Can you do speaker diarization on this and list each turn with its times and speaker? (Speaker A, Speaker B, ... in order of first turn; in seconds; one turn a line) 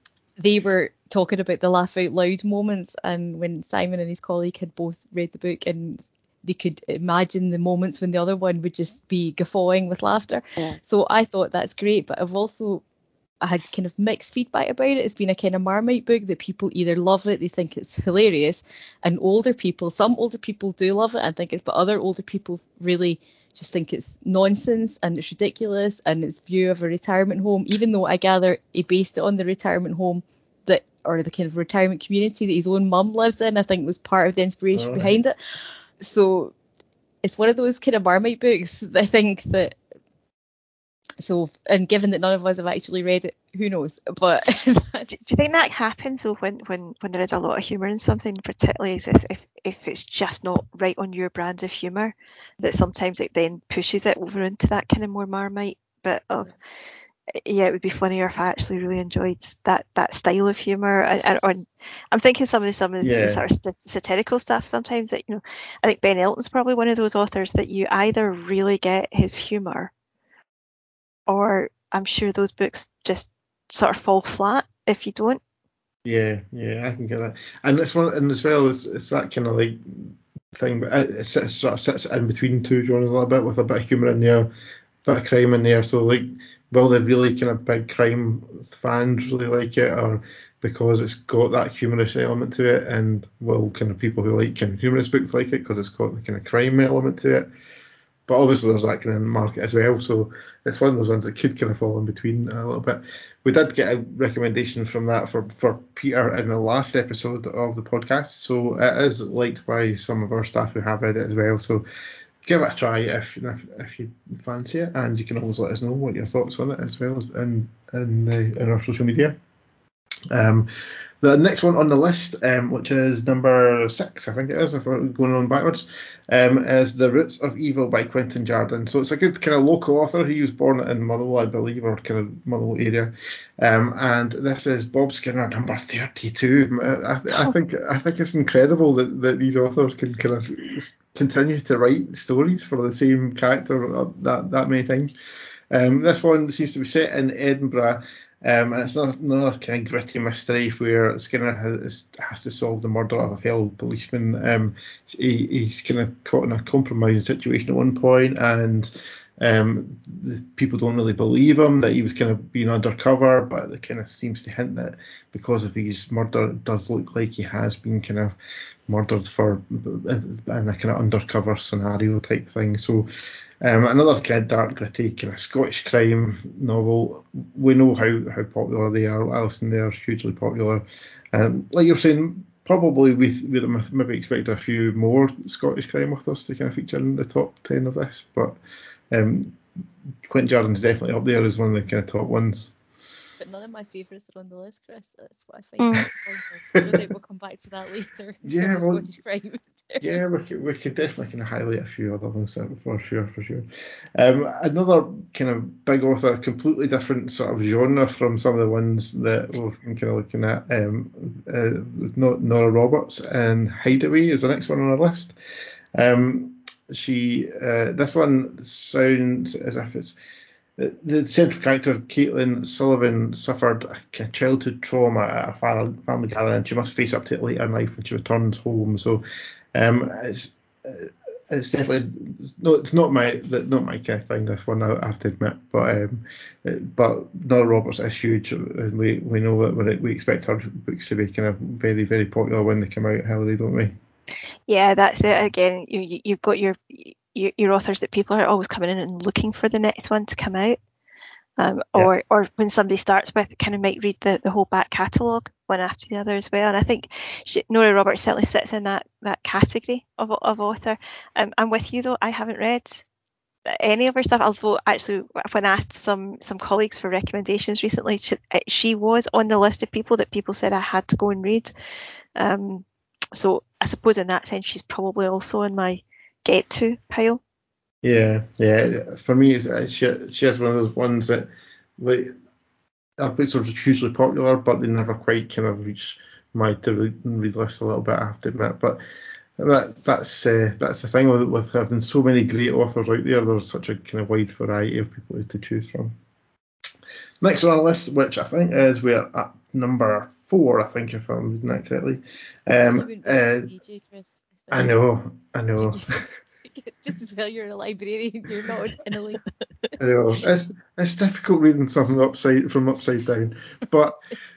Speaker A: 0.4-12.8
Speaker A: 13.4-36.5
Speaker B: 34.7-35.1
Speaker A: 37.2-39.8
Speaker A: 41.2-45.2
Speaker C: 45.1-56.5
Speaker C: 57.3-69.9
Speaker B: 63.0-63.4
Speaker C: 71.3-75.4
Speaker B: 76.0-84.5
Speaker B: 85.0-97.5
Speaker B: 98.3-111.8
Speaker B: 112.5-119.4
Speaker B: 120.3-120.7
Speaker B: 121.2-145.1
Speaker B: 145.7-168.4
Speaker B: 168.9-173.1
Speaker B: 173.6-188.6
Speaker B: 189.1-189.6
Speaker B: 190.3-192.7
Speaker A: 193.4-200.2
Speaker C: 195.8-196.1
Speaker B: 198.4-199.1
Speaker B: 200.0-215.3
Speaker B: 215.9-220.2
Speaker B: 220.8-229.2
Speaker B: 229.8-243.9
Speaker C: 244.7-250.8
Speaker C: 251.6-263.0
Speaker C: 263.7-271.7
Speaker C: 272.4-277.4
Speaker B: 278.0-282.3
Speaker B: 283.2-289.0
Speaker B: 289.6-296.1
Speaker B: 297.4-303.7
Speaker A: 302.9-304.9
Speaker B: 304.7-306.1
Speaker A: 305.8-309.4
Speaker B: 310.0-314.2